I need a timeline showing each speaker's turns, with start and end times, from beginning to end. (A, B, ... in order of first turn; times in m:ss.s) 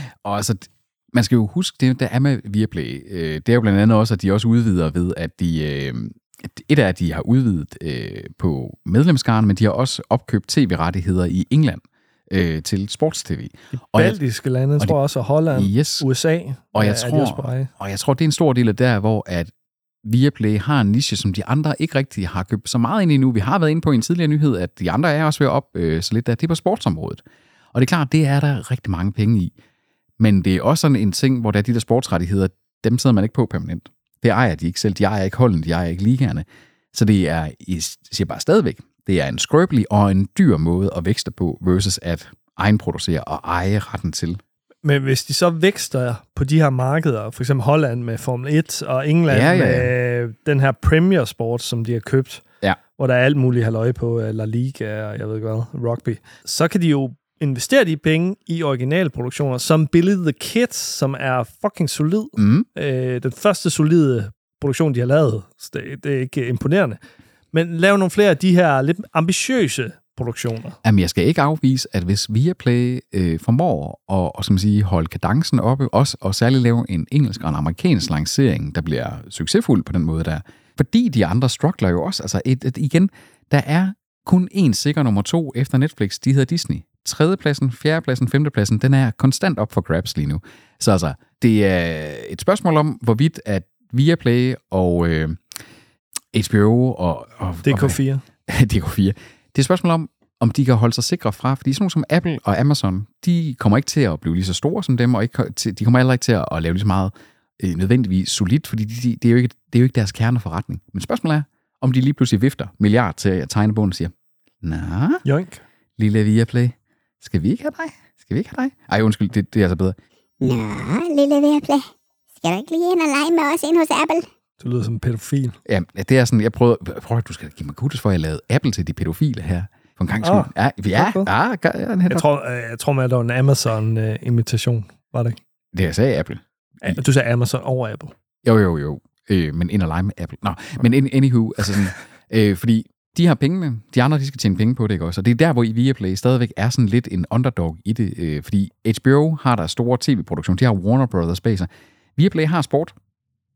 0:00.2-0:14.2 A
0:13.9-0:17.7 B
0:15.5-0:16.1 A
0:16.8-0:19.5 A
0:20.0-0:27.2 A
0:27.7-0:29.5 A
0:30.2-0:44.4 A
0:44.8-0:52.4 B
0:49.3-0:49.9 A
0:53.0-1:07.0 B
1:02.4-1:02.7 A
1:07.5-1:10.8 B
1:10.8-1:35.4 A
1:36.3-1:55.2 A
1:37.6-1:38.2 B
1:55.2-1:55.6 B
1:56.0-2:00.0 A
2:00.4-2:01.9 C
2:02.4-2:04.3 C
2:04.6-2:05.6 B
2:05.7-2:12.2 A
2:10.2-2:11.3 B
2:12.1-2:15.4 B
2:15.7-2:17.0 A
2:16.8-2:18.1 B
2:18.4-2:32.9 A